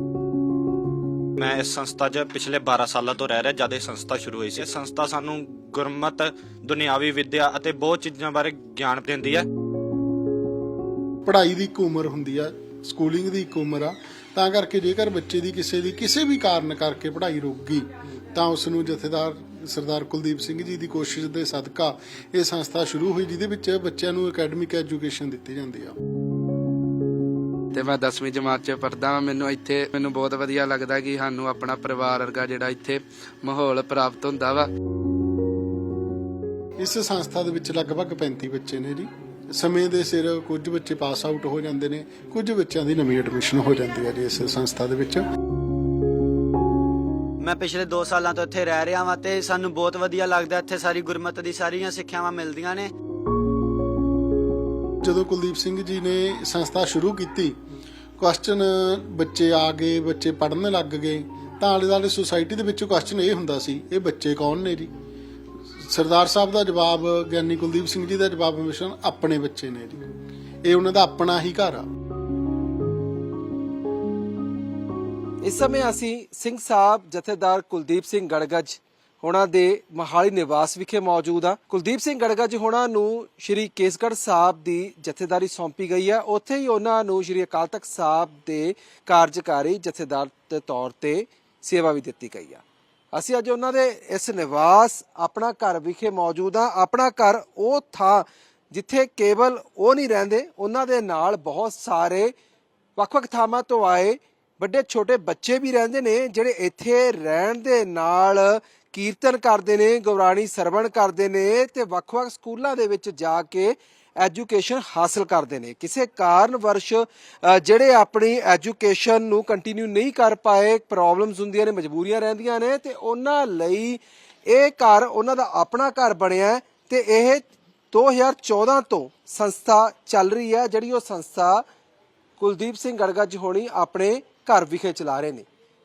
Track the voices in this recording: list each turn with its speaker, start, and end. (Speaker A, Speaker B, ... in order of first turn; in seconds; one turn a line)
Speaker A: 1.4-9.4
Speaker B: 11.2-25.9
Speaker C: 27.7-34.7
Speaker B: 36.8-45.2
Speaker D: 47.4-52.9
Speaker B: 55.0-57.6
Speaker B: 58.2-64.9
Speaker B: 65.8-70.0
Speaker B: 70.6-71.9
Speaker E: 75.4-92.6
Speaker E: 93.1-102.3
Speaker E: 103.0-131.6
Speaker E: 132.4-135.4